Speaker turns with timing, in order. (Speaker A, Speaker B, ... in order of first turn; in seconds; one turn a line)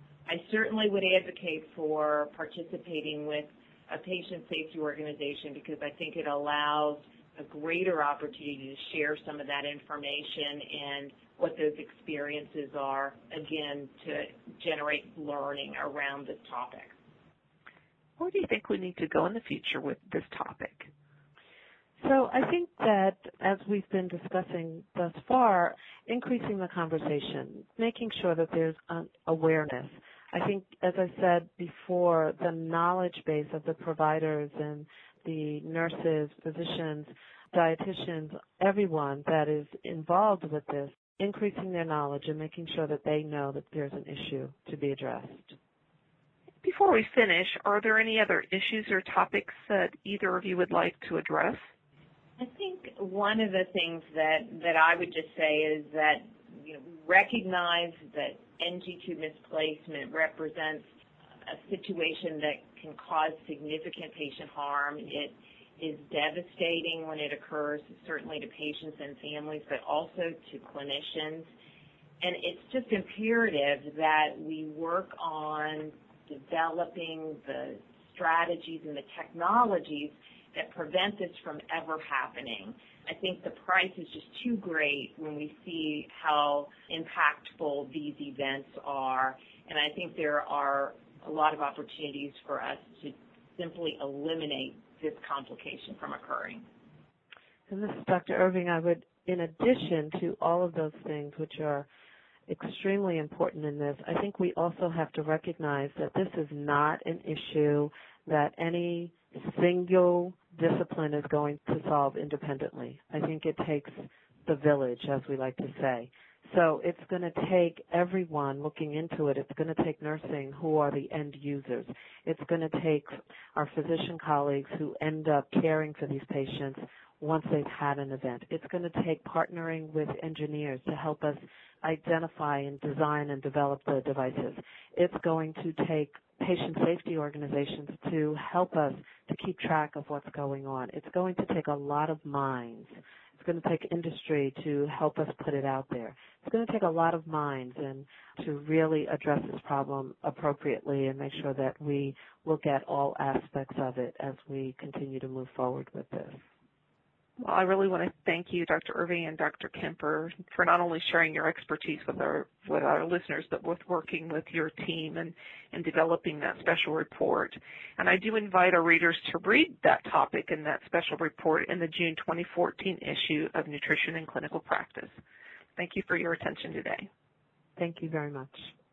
Speaker A: 0.3-16.9
Speaker B: 18.2-20.9
Speaker C: 22.0-45.5
Speaker B: 46.6-51.6
Speaker A: 52.4-60.8
Speaker A: 61.5-71.5
Speaker A: 72.2-96.7
Speaker C: 97.7-101.9
Speaker C: 102.5-156.4
Speaker B: 157.4-175.1
Speaker B: 175.8-177.1
Speaker C: 177.8-178.7